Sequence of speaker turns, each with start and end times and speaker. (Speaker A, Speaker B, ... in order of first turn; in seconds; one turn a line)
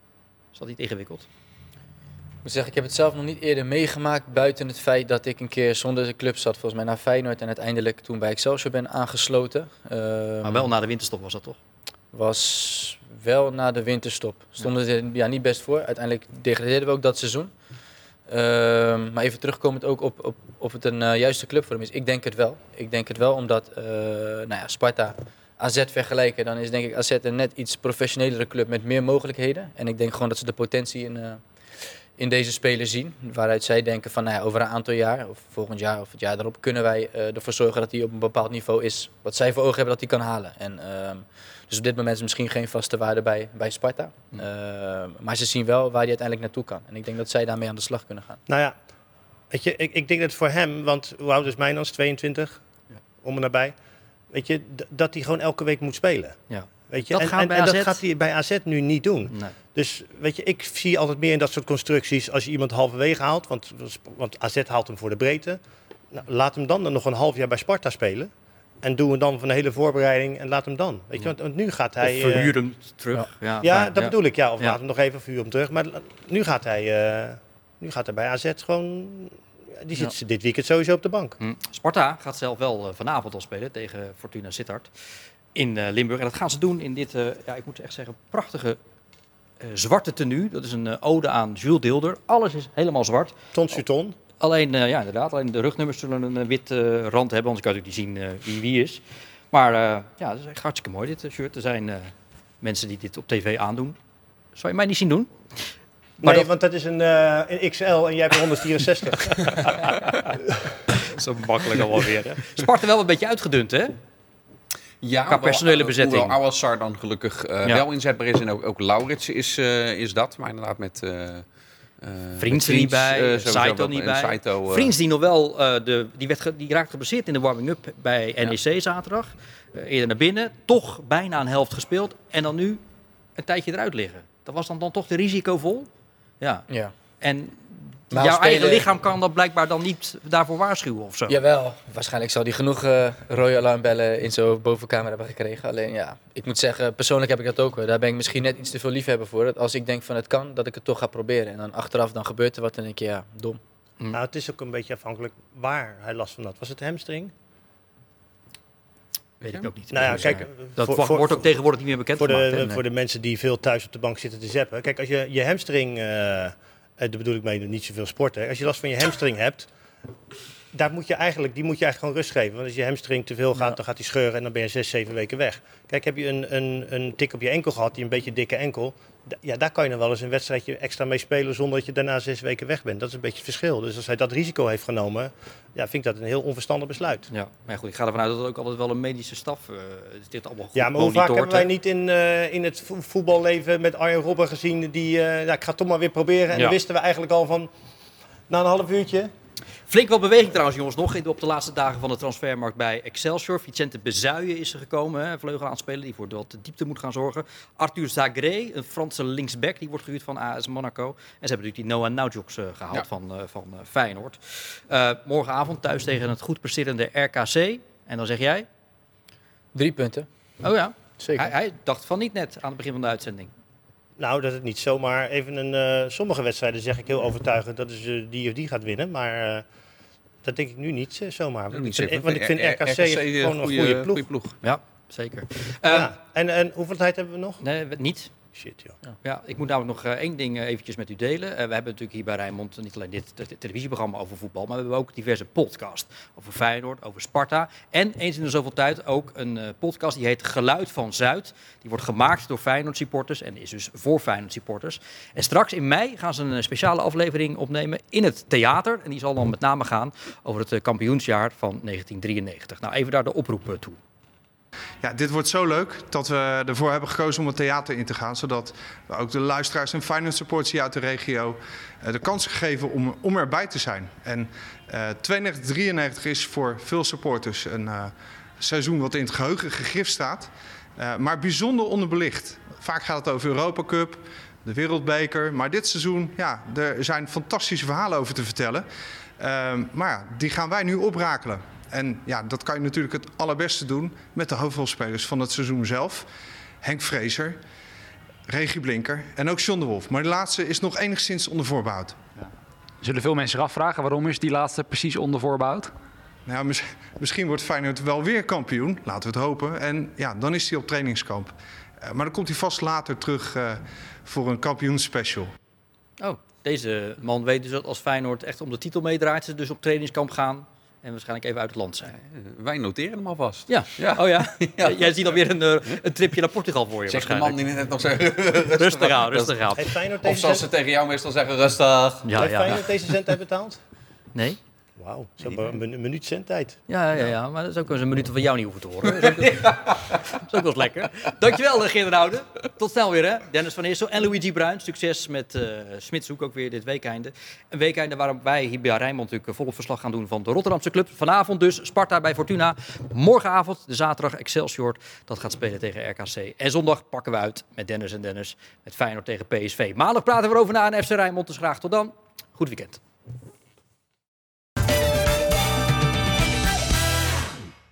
Speaker A: 0.5-1.2
Speaker B: 2.4-10.7
Speaker A: 10.4-11.6
Speaker B: 12.1-17.5
Speaker B: 18.3-31.4
Speaker B: 32.2-48.4
Speaker C: 48.5-48.8
Speaker C: 49.5-52.6
Speaker C: 53.2-53.7
Speaker C: 54.3-56.4
Speaker A: 56.5-58.0
Speaker C: 56.9-65.6
Speaker A: 59.3-59.5
Speaker C: 66.1-68.3
Speaker C: 68.8-72.5
Speaker A: 72.0-74.8
Speaker C: 73.6-81.4
Speaker A: 81.4-84.9
Speaker A: 85.5-88.8
Speaker A: 89.6-93.3
Speaker C: 93.5-94.2
Speaker A: 94.4-104.0
Speaker A: 104.5-105.7
Speaker A: 106.2-106.5
Speaker C: 106.2-109.7
Speaker A: 109.4-110.3
Speaker A: 110.9-114.0
Speaker D: 115.0-121.5
Speaker A: 115.3-116.4
Speaker D: 122.0-124.9
Speaker A: 122.4-132.8
Speaker A: 133.3-135.9
Speaker A: 136.4-136.7
Speaker A: 137.2-141.3
Speaker B: 138.1-138.8
Speaker B: 141.3-153.6
Speaker C: 154.1-157.3
Speaker A: 159.4-162.7
Speaker C: 159.9-161.4
Speaker C: 162.2-169.7
Speaker C: 170.7-187.3
Speaker A: 187.3-191.7
Speaker C: 190.7-197.7
Speaker C: 198.5-199.3
Speaker A: 199.9-218.7
Speaker B: 219.7-220.3
Speaker A: 220.6-223.5
Speaker B: 221.2-221.5
Speaker C: 224.2-229.6
Speaker C: 230.4-234.2
Speaker D: 231.7-234.6
Speaker A: 234.6-236.1
Speaker C: 235.9-237.6
Speaker A: 237.6-238.3
Speaker C: 238.6-239.0
Speaker A: 239.2-264.0
Speaker E: 265.0-288.8
Speaker E: 289.4-296.3
Speaker E: 296.8-297.6
Speaker E: 298.5-302.2
Speaker F: 303.0-305.9
Speaker E: 306.4-315.5
Speaker A: 316.2-322.1
Speaker D: 322.1-325.3
Speaker A: 323.7-327.6
Speaker D: 327.1-332.8
Speaker A: 328.8-329.9
Speaker C: 329.8-330.6
Speaker A: 332.2-332.8
Speaker C: 332.4-333.8
Speaker C: 335.0-336.8
Speaker A: 336.9-363.0